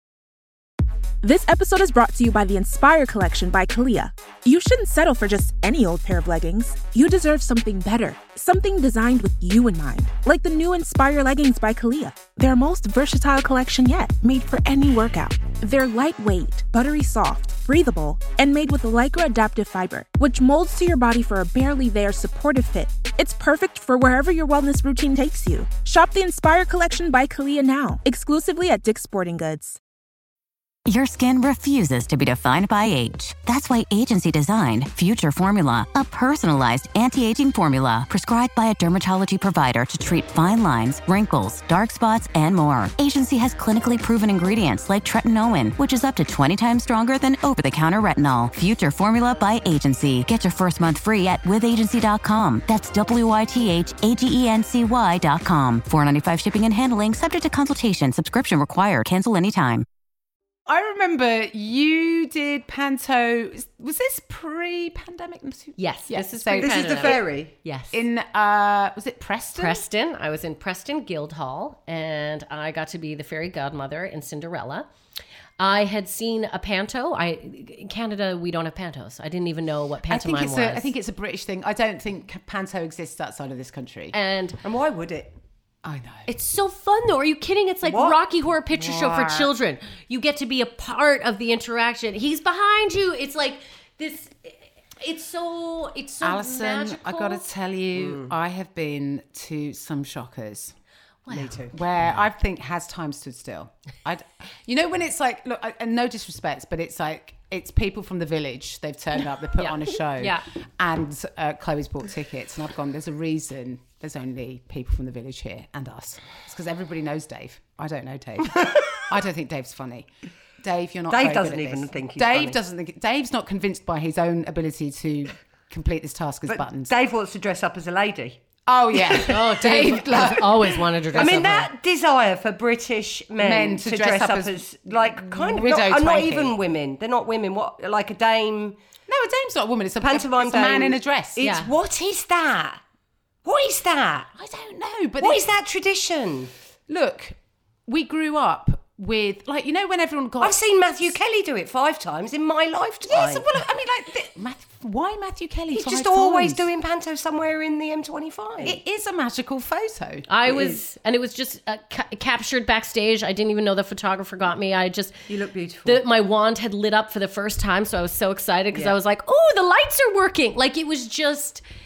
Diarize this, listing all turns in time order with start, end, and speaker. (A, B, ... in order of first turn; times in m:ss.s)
0:01.2-0:29.8 A
0:30.9-0:59.9 B
1:00.7-1:07.2 C
1:05.8-1:08.0 D
1:06.6-1:07.5 E
1:07.9-1:09.8 C
1:09.6-1:14.9 D
1:15.6-1:20.9 D
1:20.1-1:24.1 C
1:24.1-1:24.6 D
1:24.6-1:25.3 E
1:25.8-1:26.3 C
1:26.3-1:37.4 D
1:27.8-1:28.2 E
1:28.7-1:29.5 C
1:36.2-1:40.8 C
1:38.0-1:38.3 E
1:41.3-1:41.5 D
1:41.3-1:41.8 E
1:41.4-2:00.1 C
1:49.6-1:50.4 D
2:00.6-2:06.9 C
2:01.1-2:02.6 E
2:06.5-2:08.4 E
2:08.7-2:10.8 C
2:08.9-2:09.3 E
2:09.2-2:11.7 D
2:11.1-2:18.8 E
2:13.4-2:16.6 C
2:19.1-2:21.5 C
2:20.0-2:22.8 E
2:21.4-2:21.7 D
2:23.4-2:24.3 E
2:24.4-2:25.4 C
2:25.2-2:26.5 E
2:26.9-2:30.6 C
2:30.4-2:33.5 E
2:33.1-2:36.6 C
2:35.7-2:38.8 E
2:38.6-2:40.3 C
2:40.3-2:45.3 D
2:40.4-2:40.8 E
2:45.3-2:46.0 E
2:45.8-2:51.6 D